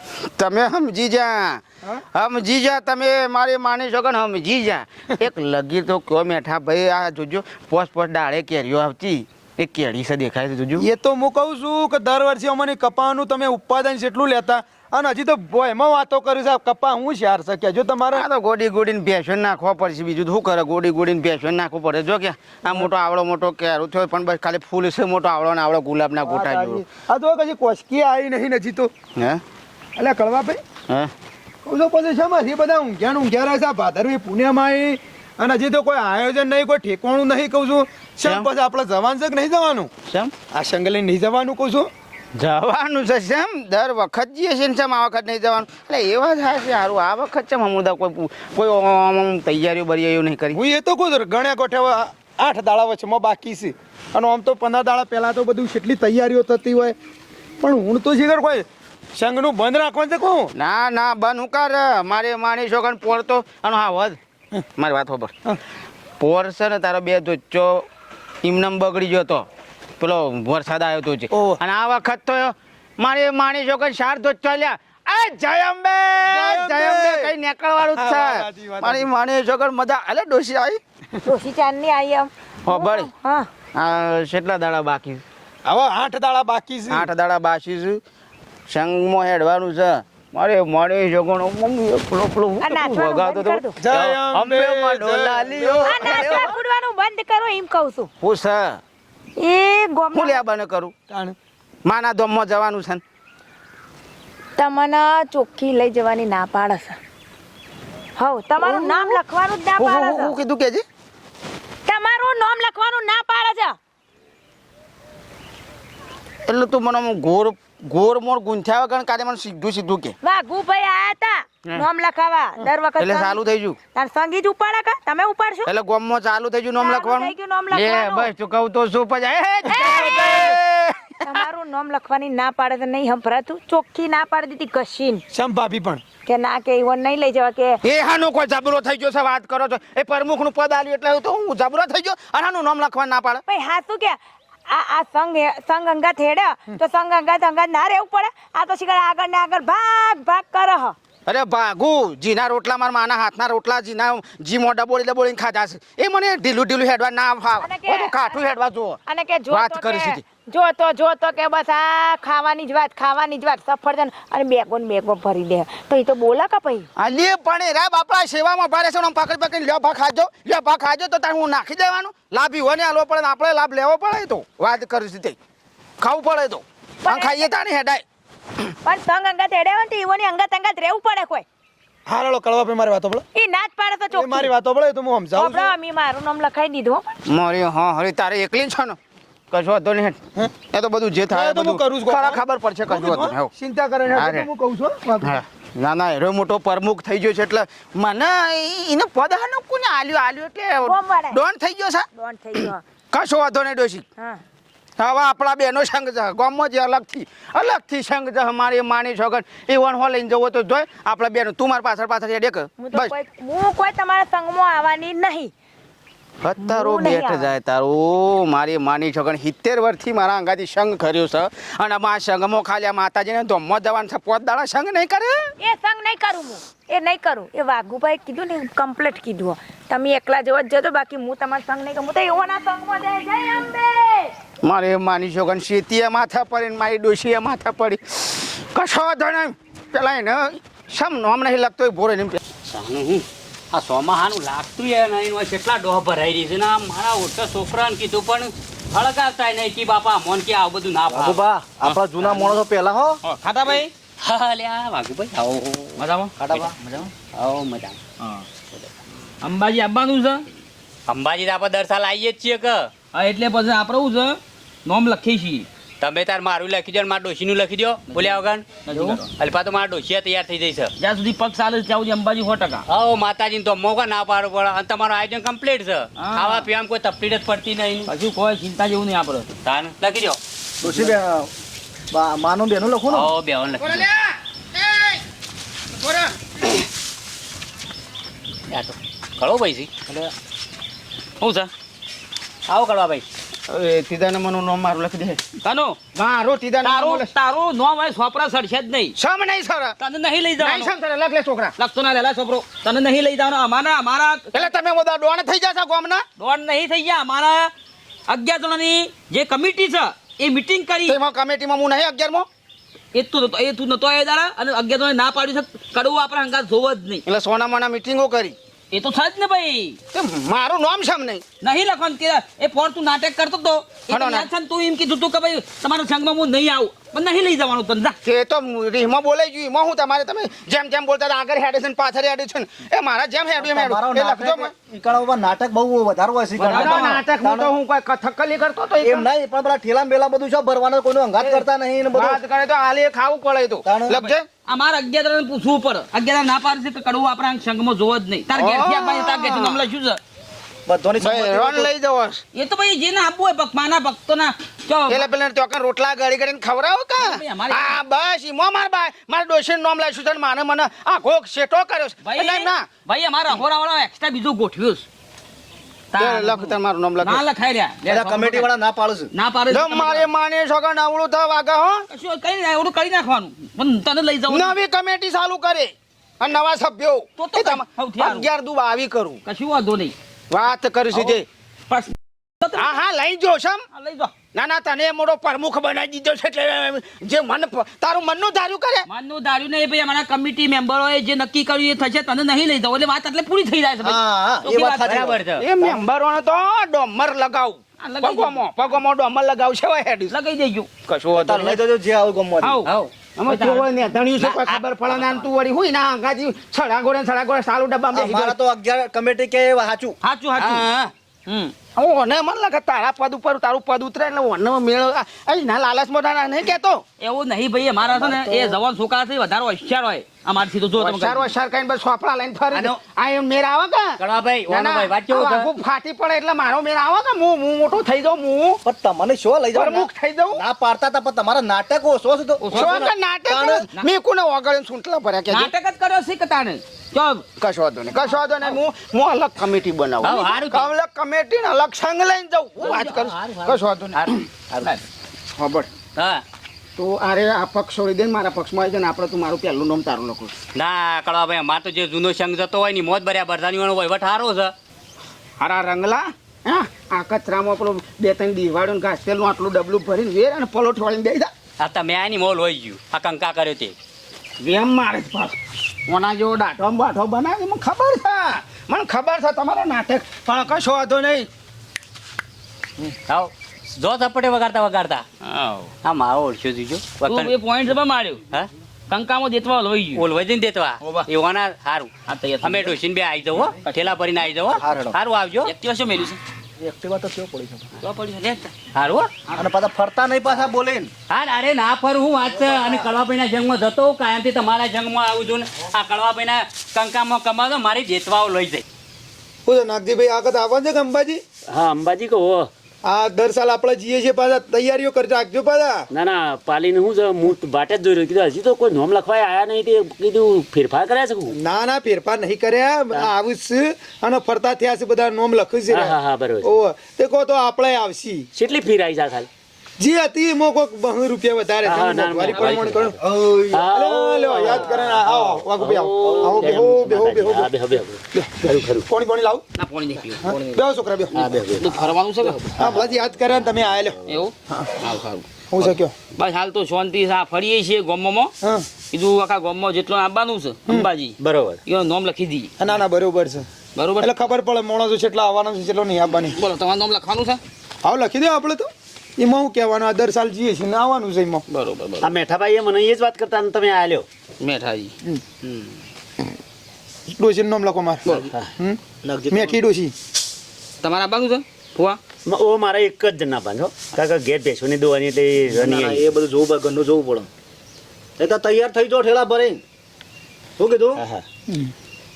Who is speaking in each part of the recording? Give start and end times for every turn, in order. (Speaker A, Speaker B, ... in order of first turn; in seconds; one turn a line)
Speaker A: 0.4-10.9
Speaker B: 10.8-18.3
Speaker A: 18.1-26.8
Speaker B: 26.2-28.9
Speaker A: 29.1-29.4
Speaker B: 30.0-30.6
Speaker B: 31.6-39.9
Speaker A: 38.2-38.5
Speaker A: 40.1-40.3
Speaker B: 40.5-41.9
Speaker A: 42.4-50.6
Speaker B: 50.5-56.9
Speaker B: 57.6-60.5
Speaker A: 60.5-64.2
Speaker A: 64.8-65.3
Speaker A: 66.2-67.8
Speaker A: 68.4-69.5
Speaker A: 70.0-80.8
Speaker B: 71.3-71.6
Speaker B: 76.2-77.3
Speaker B: 77.9-79.1
Speaker C: 81.2-83.5
Speaker A: 82.7-83.1
Speaker A: 83.7-85.2
Speaker B: 85.7-87.1
Speaker A: 86.9-88.0
Speaker A: 88.7-96.5
Speaker C: 92.6-93.8
Speaker B: 93.8-96.5
Speaker C: 95.8-98.1
Speaker A: 98.2-98.8
Speaker C: 99.4-100.4
Speaker A: 100.1-100.9
Speaker B: 101.1-101.3
Speaker A: 101.8-103.0
Speaker C: 104.6-107.0
Speaker C: 108.2-110.3
Speaker A: 108.6-109.2
Speaker A: 109.8-110.8
Speaker C: 111.8-113.8
Speaker A: 116.5-120.1
Speaker C: 120.2-123.4
Speaker A: 123.0-123.8
Speaker C: 123.9-125.7
Speaker A: 125.7-131.4
Speaker C: 126.8-128.3
Speaker C: 129.7-130.5
Speaker B: 129.8-130.5
Speaker C: 131.2-135.2
Speaker B: 135.3-136.0
Speaker C: 136.2-137.8
Speaker A: 137.8-143.4
Speaker C: 143.5-144.2
Speaker C: 144.7-150.9
Speaker A: 151.3-159.0
Speaker C: 157.6-158.4
Speaker C: 159.1-166.9
Speaker A: 159.5-160.2
Speaker A: 167.0-175.4
Speaker A: 176.0-178.0
Speaker C: 177.0-177.5
Speaker C: 178.8-181.4
Speaker B: 182.1-183.2
Speaker C: 183.3-184.5
Speaker B: 184.1-185.7
Speaker C: 185.3-187.2
Speaker A: 187.3-189.0
Speaker A: 189.5-193.5
Speaker B: 191.3-195.4
Speaker A: 194.1-194.5
Speaker A: 195.2-202.1
Speaker C: 200.8-201.4
Speaker C: 202.1-202.8
Speaker A: 203.1-204.0
Speaker A: 205.0-213.1
Speaker C: 212.8-215.5
Speaker A: 216.4-225.5
Speaker C: 216.6-217.5
Speaker C: 225.6-234.3
Speaker A: 234.6-242.4
Speaker D: 242.7-251.4
Speaker E: 251.1-253.2
Speaker D: 252.2-252.5
Speaker F: 253.2-253.9
Speaker D: 253.6-258.0
Speaker F: 256.0-256.3
Speaker E: 256.4-256.7
Speaker F: 259.4-260.4
Speaker D: 261.1-262.9
Speaker F: 263.1-265.6
Speaker D: 266.0-270.9
Speaker F: 268.1-269.3
Speaker F: 271.0-272.8
Speaker D: 272.9-278.1
Speaker F: 276.2-276.7
Speaker F: 278.1-279.5
Speaker D: 279.6-280.4
Speaker E: 280.8-281.5
Speaker F: 280.9-281.1
Speaker E: 282.1-283.3
Speaker D: 283.1-284.1
Speaker A: 283.8-285.2
Speaker A: 285.9-286.7
Speaker D: 288.7-289.9
Speaker F: 291.4-291.7
Speaker D: 292.7-293.2
Speaker A: 293.7-295.4
Speaker F: 295.6-296.0
Speaker A: 296.1-297.3
Speaker F: 296.8-299.1
Speaker A: 299.2-299.9
Speaker F: 300.0-300.9
Speaker A: 300.6-301.7
Speaker F: 301.8-304.7
Speaker A: 304.5-306.2
Speaker F: 306.4-307.7
Speaker F: 308.3-311.2
Speaker A: 311.1-312.5
Speaker F: 313.1-317.2
Speaker A: 317.3-318.6
Speaker F: 318.9-320.0
Speaker A: 320.1-321.4
Speaker F: 321.6-328.1
Speaker A: 324.1-324.5
Speaker A: 328.2-334.7
Speaker E: 333.6-337.7
Speaker F: 336.6-337.2
Speaker A: 336.6-339.2
Speaker E: 339.0-342.4
Speaker A: 341.4-344.4
Speaker E: 343.8-344.1
Speaker F: 344.1-350.2
Speaker A: 348.5-349.8
Speaker E: 350.9-351.9
Speaker A: 351.2-352.4
Speaker F: 352.5-355.3
Speaker A: 355.1-362.9
Speaker F: 357.2-358.0
Speaker F: 362.2-365.1
Speaker F: 366.1-368.7
Speaker A: 366.2-367.4
Speaker E: 368.1-369.3
Speaker F: 369.3-370.3
Speaker A: 369.7-372.0
Speaker F: 372.1-374.8
Speaker A: 374.5-379.4
Speaker F: 377.4-378.5
Speaker F: 379.4-380.1
Speaker A: 380.5-381.4
Speaker F: 381.1-383.0
Speaker A: 382.7-383.8
Speaker F: 383.9-384.3
Speaker A: 384.5-389.1
Speaker F: 389.1-395.3
Speaker E: 394.0-396.0
Speaker D: 395.0-395.7
Speaker A: 395.6-400.3
Speaker F: 398.0-398.6
Speaker F: 400.3-400.9
Speaker A: 401.1-401.8
Speaker E: 401.4-402.8
Speaker F: 402.6-402.9
Speaker D: 402.8-403.1
Speaker A: 403.4-408.6
Speaker F: 403.5-403.9
Speaker D: 404.5-405.4
Speaker E: 408.1-410.2
Speaker F: 410.2-410.9
Speaker A: 410.6-411.1
Speaker F: 411.5-411.7
Speaker A: 411.9-417.0
Speaker F: 417.2-421.5
Speaker E: 418.0-418.8
Speaker A: 421.0-424.2
Speaker D: 424.2-425.7
Speaker A: 424.7-428.8
Speaker E: 428.8-433.9
Speaker A: 429.7-430.6
Speaker F: 432.6-433.1
Speaker A: 432.7-435.7
Speaker F: 435.5-437.4
Speaker A: 437.6-444.4
Speaker D: 440.2-440.9
Speaker D: 442.8-444.9
Speaker A: 445.6-445.9
Speaker D: 446.1-446.4
Speaker A: 446.9-450.5
Speaker D: 450.7-454.7
Speaker A: 455.6-461.5
Speaker D: 461.8-463.9
Speaker A: 464.6-465.6
Speaker A: 466.1-471.5
Speaker D: 473.3-475.2
Speaker F: 475.4-475.9
Speaker D: 475.9-477.5
Speaker F: 477.2-478.4
Speaker F: 479.1-480.3
Speaker D: 480.2-482.1
Speaker F: 481.0-481.3
Speaker F: 482.3-483.0
Speaker D: 482.6-485.7
Speaker E: 484.8-485.1
Speaker F: 485.6-486.4
Speaker E: 486.8-487.9
Speaker F: 488.0-488.7
Speaker D: 488.7-489.4
Speaker E: 489.5-491.1
Speaker D: 491.3-498.8
Speaker B: 499.6-501.4
Speaker G: 501.7-502.7
Speaker B: 503.0-506.1
Speaker G: 506.1-511.6
Speaker B: 511.5-518.5
Speaker G: 515.9-516.7
Speaker G: 518.5-519.5
Speaker B: 520.0-527.7
Speaker G: 521.8-529.1
Speaker F: 522.4-522.8
Speaker E: 526.3-526.6
Speaker B: 528.3-529.6
Speaker F: 529.8-530.8
Speaker B: 530.3-531.4
Speaker G: 531.3-532.0
Speaker F: 531.8-532.8
Speaker B: 532.7-534.9
Speaker F: 534.3-538.5
Speaker B: 535.7-536.1
Speaker B: 538.6-538.9
Speaker F: 539.1-542.7
Speaker G: 541.4-541.8
Speaker B: 542.8-543.6
Speaker F: 544.0-544.4
Speaker B: 544.2-546.6
Speaker F: 546.4-547.6
Speaker B: 548.0-551.6
Speaker F: 551.7-552.3
Speaker G: 552.2-554.2
Speaker F: 554.6-555.1
Speaker B: 557.3-558.2
Speaker G: 558.3-558.7
Speaker B: 558.8-560.1
Speaker E: 559.2-559.8
Speaker F: 561.0-562.2
Speaker G: 562.5-566.2
Speaker E: 565.7-567.5
Speaker E: 568.4-569.8
Speaker E: 570.8-571.2
Speaker G: 571.1-571.4